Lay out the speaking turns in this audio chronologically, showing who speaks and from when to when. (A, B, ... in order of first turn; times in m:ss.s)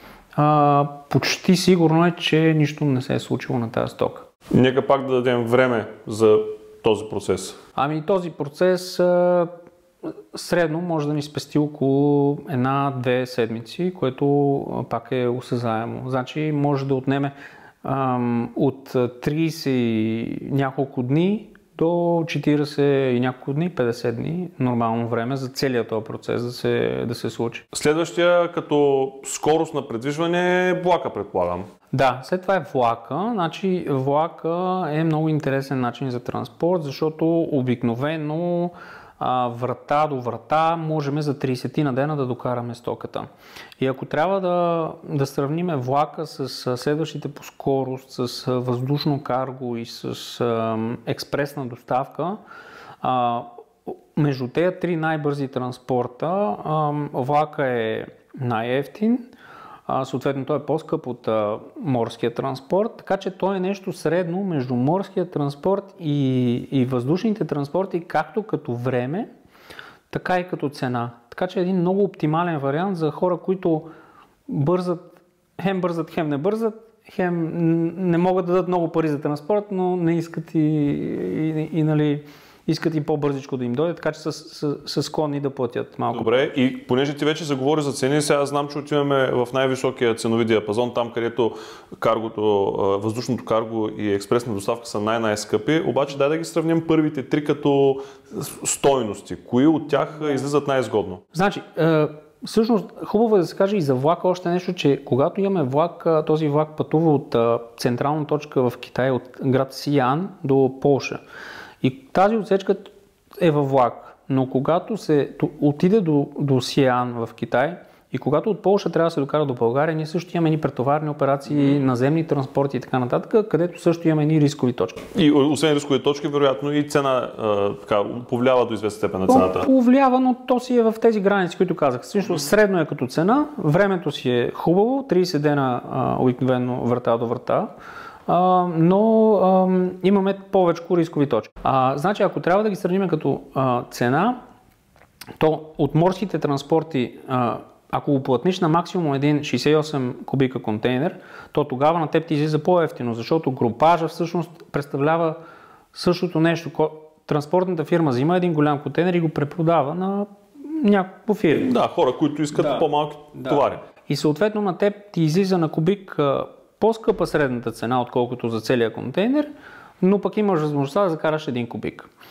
0:00.4-0:04.3 A
0:04.5-0:07.6 B
0:07.8-0:09.5 A
0:10.3-0:27.7 A
0:27.7-0:31.6 B
0:31.9-0:43.3 A
0:43.8-0:52.4 A
0:53.0-0:59.3 A
0:59.9-1:09.3 A
1:10.1-1:13.9 A
1:14.5-1:26.4 A
1:26.1-1:41.2 B
1:41.3-1:51.2 A
1:51.8-2:05.0 A
2:05.1-2:09.7 B
2:09.3-2:17.7 A
2:18.3-2:24.4 A
2:25.4-2:35.4 A
2:35.9-2:41.7 A
2:41.6-2:43.8 B
2:42.5-2:49.5 A
2:50.0-2:52.1 A